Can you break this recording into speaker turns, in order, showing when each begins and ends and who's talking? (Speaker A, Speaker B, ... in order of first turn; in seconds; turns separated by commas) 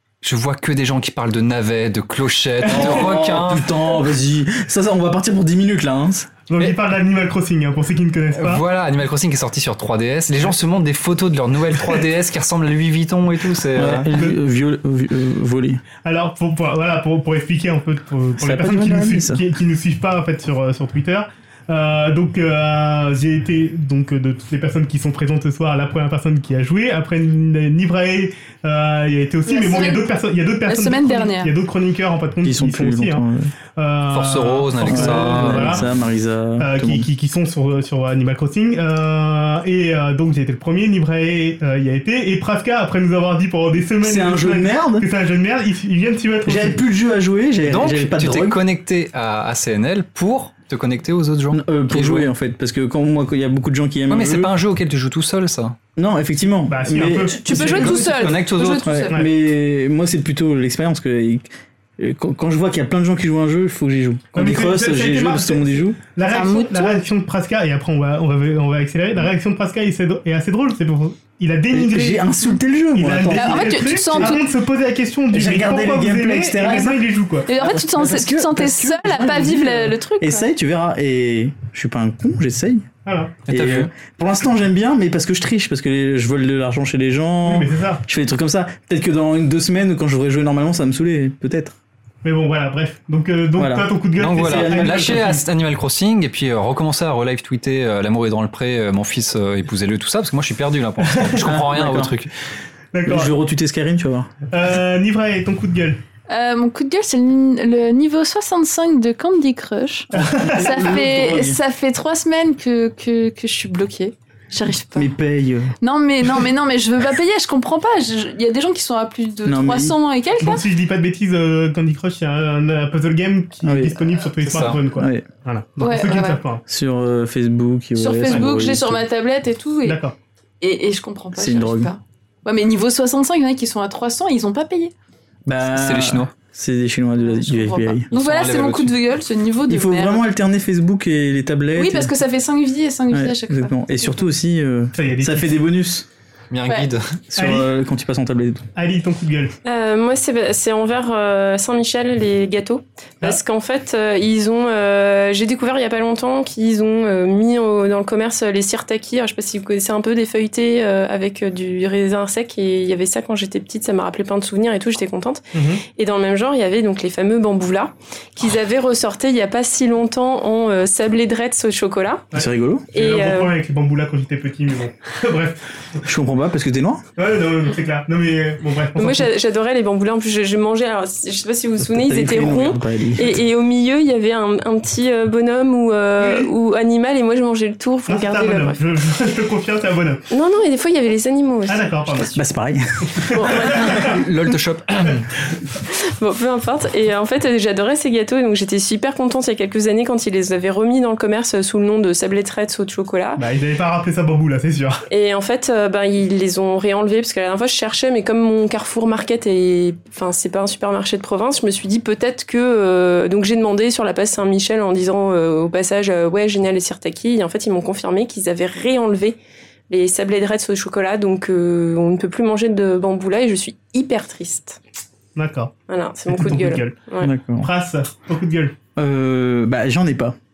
Speaker A: 0.2-3.9, Speaker B: 2.6-6.3, Speaker C: 2.7-2.9, Speaker C: 6.5-8.6, Speaker A: 8.3-14.1, Speaker B: 13.8-15.8, Speaker C: 16.0-33.2, Speaker B: 18.4-19.4, Speaker D: 29.5-30.1, Speaker D: 30.7-31.5, Speaker B: 32.4-33.5, Speaker C: 33.8-35.9, Speaker A: 34.1-35.8, Speaker B: 34.8-37.1, Speaker C: 36.6-46.8, Speaker B: 44.0-45.1, Speaker B: 46.5-48.6, Speaker A: 47.7-52.3, Speaker B: 51.5-54.5, Speaker A: 54.1-55.8, Speaker B: 56.0-58.0, Speaker C: 56.7-58.4, Speaker D: 57.3-59.2, Speaker A: 57.6-59.0, Speaker B: 58.8-66.0, Speaker C: 64.3-77.5, Speaker D: 66.2-67.0, Speaker B: 71.7-74.4, Speaker D: 73.3-74.4, Speaker B: 75.3-77.0, Speaker D: 77.5-80.5, Speaker B: 77.5-82.9, Speaker C: 83.0-83.4, Speaker A: 83.5-83.9, Speaker B: 83.5-91.8, Speaker C: 87.5-88.0, Speaker C: 92.2-95.4, Speaker B: 93.6-95.4, Speaker A: 94.2-102.3, Speaker C: 101.1-101.5, Speaker B: 101.4-102.2, Speaker C: 102.9-103.3, Speaker B: 103.1-104.3, Speaker C: 104.5-106.0, Speaker D: 106.3-115.1, Speaker C: 110.1-110.9, Speaker B: 110.2-111.6, Speaker B: 115.0-115.7, Speaker D: 115.8-120.6, Speaker B: 119.5-120.0, Speaker C: 120.4-126.6, Speaker B: 123.6-124.0, Speaker A: 124.4-124.8, Speaker B: 124.9-125.3, Speaker D: 125.8-126.4, Speaker B: 126.7-129.0, Speaker D: 128.0-130.0, Speaker C: 129.9-130.2, Speaker D: 130.6-134.9, Speaker B: 131.3-131.9, Speaker B: 135.5-138.1, Speaker A: 135.7-136.3, Speaker D: 137.2-140.2, Speaker A: 138.1-139.0, Speaker B: 139.7-142.1, Speaker D: 141.8-144.2, Speaker B: 143.1-146.1, Speaker C: 144.9-145.6, Speaker A: 146.5-147.0, Speaker B: 147.3-148.7, Speaker C: 147.4-147.7, Speaker C: 148.8-149.6, Speaker E: 149.7-172.3, Speaker C: 165.5-165.8, Speaker B: 172.3-172.9, Speaker C: 172.3-175.6, Speaker E: 172.9-173.6, Speaker B: 176.1-177.0, Speaker C: 177.2-179.3, Speaker E: 179.0-188.8, Speaker B: 181.8-183.4, Speaker C: 186.2-186.5, Speaker C: 188.1-190.2, Speaker E: 190.3-192.4, Speaker C: 191.7-192.3, Speaker B: 192.3-193.6, Speaker C: 193.2-194.2, Speaker E: 193.2-194.2, Speaker A: 193.7-195.3, Speaker E: 195.8-203.4, Speaker C: 203.4-205.1, Speaker E: 205.1-219.4, Speaker E: 219.9-224.8, Speaker C: 225.4-225.8, Speaker E: 225.9-227.3, Speaker C: 226.3-227.0, Speaker B: 227.2-227.7, Speaker C: 227.6-228.8, Speaker B: 229.0-230.4